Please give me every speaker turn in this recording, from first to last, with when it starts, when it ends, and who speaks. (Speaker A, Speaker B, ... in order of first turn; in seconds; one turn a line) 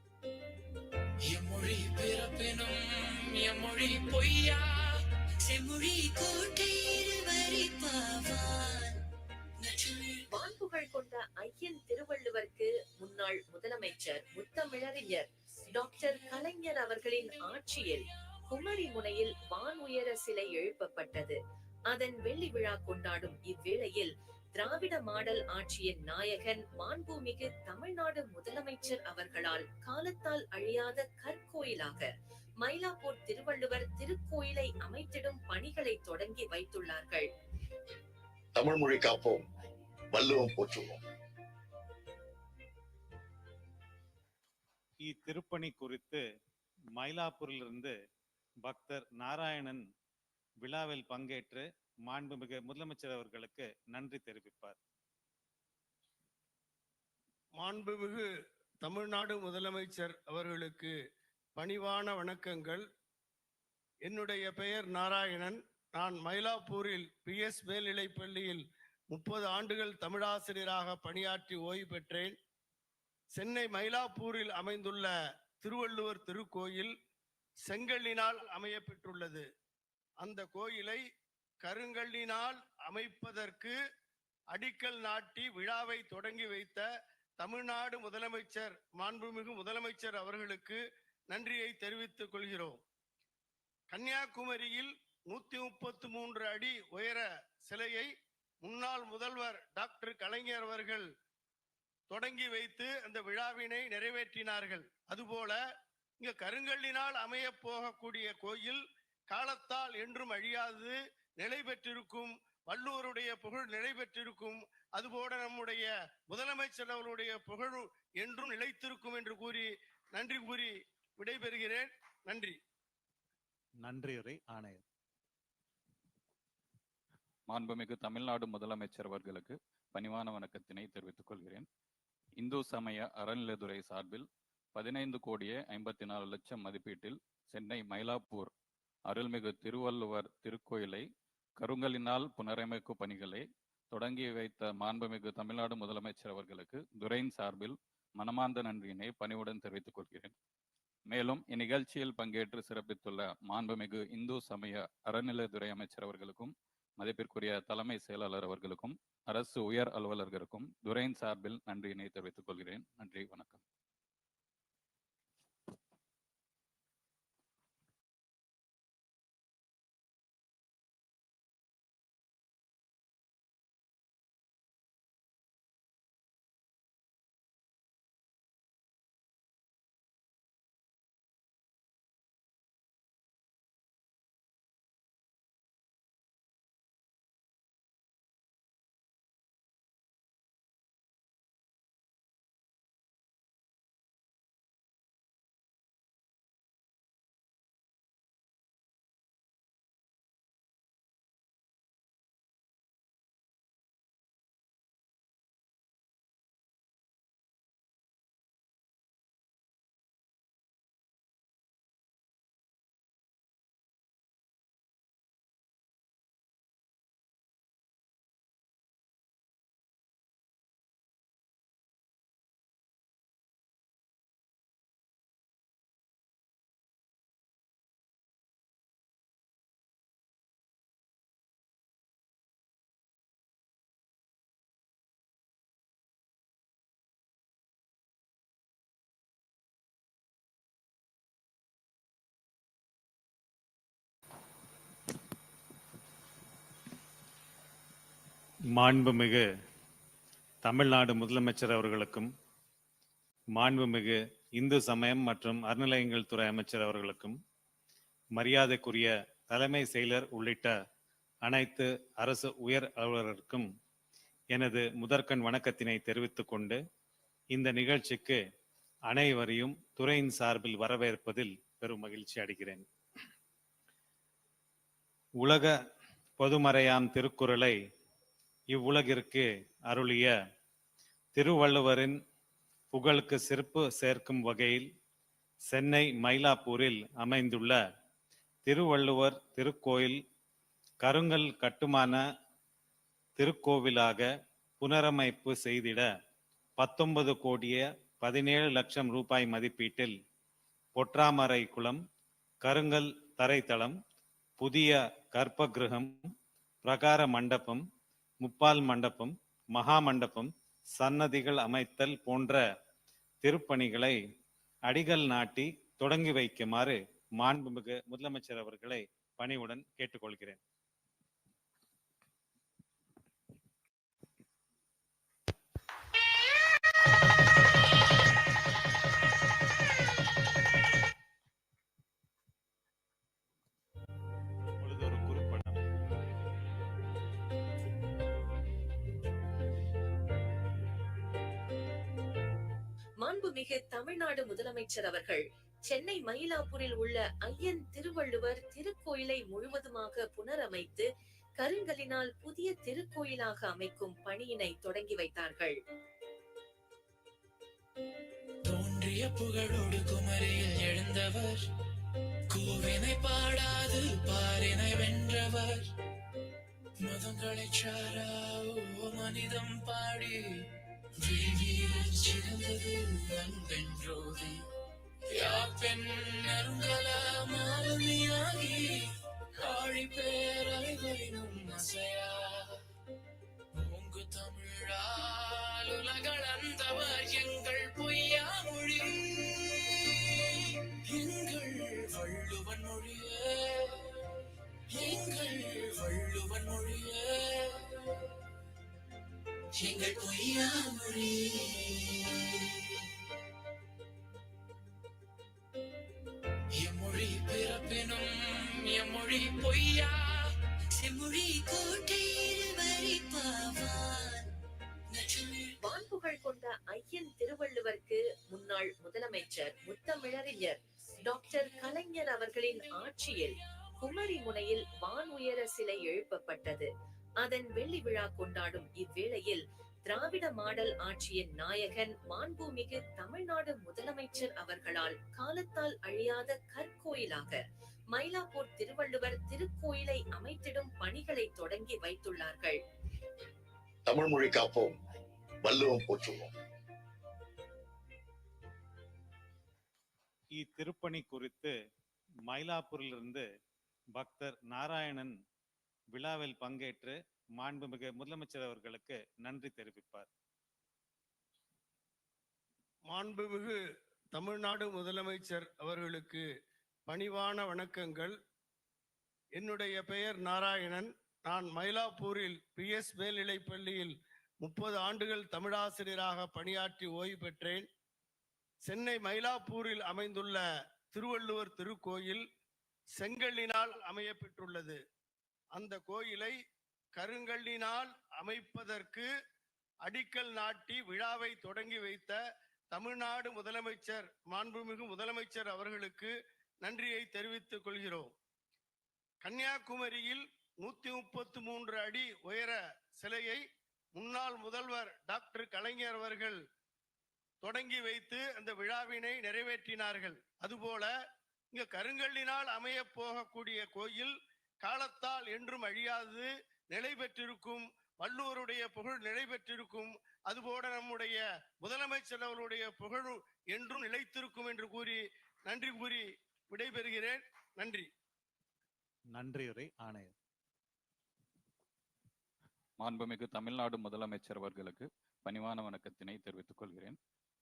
Speaker A: 1.3-5.0
Speaker B: 5.5-9.0
Speaker A: 9.6-10.2
Speaker C: 10.3-37.3
Speaker D: 38.5-39.4
Speaker D: 40.1-41.0
Speaker E: 45.0-46.2
Speaker E: 47.0-47.9
Speaker E: 48.6-49.8
Speaker E: 50.6-54.8
Speaker F: 57.6-58.3
Speaker F: 58.8-60.9
Speaker F: 61.5-62.9
Speaker F: 64.0-72.3
Speaker F: 73.3-76.9
Speaker F: 77.6-79.5
Speaker F: 80.2-81.0
Speaker F: 81.6-83.8
Speaker F: 84.5-86.8
Speaker F: 87.4-92.8
Speaker F: 93.9-98.1
Speaker F: 98.6-101.1
Speaker F: 102.1-105.6
Speaker F: 106.2-122.6
Speaker E: 123.8-124.8
Speaker G: 127.5-131.7
Speaker G: 132.4-138.5
Speaker G: 139.1-141.1
Speaker G: 141.6-150.3
Speaker G: 151.1-163.6
Speaker E: 248.8-249.4
Speaker E: 250.6-252.3
Speaker E: 253.5-257.4
Speaker E: 258.4-260.7
Speaker E: 261.4-263.7
Speaker E: 264.5-266.8
Speaker E: 267.5-268.4
Speaker E: 269.1-272.8
Speaker E: 275.4-275.7
Speaker E: 276.4-277.8
Speaker E: 278.7-280.3
Speaker E: 281.3-282.2
Speaker E: 282.9-284.9
Speaker E: 285.7-287.8
Speaker E: 288.6-290.2
Speaker E: 291.0-292.2
Speaker E: 293.4-294.3
Speaker E: 294.8-296.1
Speaker E: 296.8-300.1
Speaker E: 300.9-302.0
Speaker E: 302.6-304.0
Speaker E: 304.6-306.3
Speaker E: 306.8-307.8
Speaker E: 308.4-312.6
Speaker E: 313.4-314.2
Speaker E: 314.9-320.6
Speaker E: 334.8-335.8
Speaker C: 343.2-351.1
Speaker C: 351.6-355.8
Speaker A: 358.6-361.7
Speaker A: 362.5-365.9
Speaker A: 367.0-374.7
Speaker A: 375.3-382.8
Speaker A: 383.7-394.4
Speaker A: 394.9-398.3
Speaker A: 399.8-403.1
Speaker A: 406.8-410.6
Speaker B: 411.0-414.4
Speaker A: 415.1-415.8
Speaker C: 415.8-442.8
Speaker D: 444.1-444.9
Speaker D: 445.6-446.5
Speaker E: 450.6-451.7
Speaker E: 452.5-453.4
Speaker E: 454.1-455.3
Speaker E: 456.1-460.3
Speaker F: 463.1-463.8
Speaker F: 464.3-466.4
Speaker F: 467.1-468.4
Speaker F: 469.5-477.9
Speaker F: 478.8-482.4
Speaker F: 483.1-485.0
Speaker F: 485.7-486.6
Speaker F: 487.1-489.3
Speaker F: 490.0-492.4
Speaker F: 492.9-498.3
Speaker F: 499.4-503.6
Speaker F: 504.1-506.6
Speaker F: 507.6-511.1
Speaker F: 511.7-528.1
Speaker E: 529.3-530.3
Speaker G: 533.0-537.2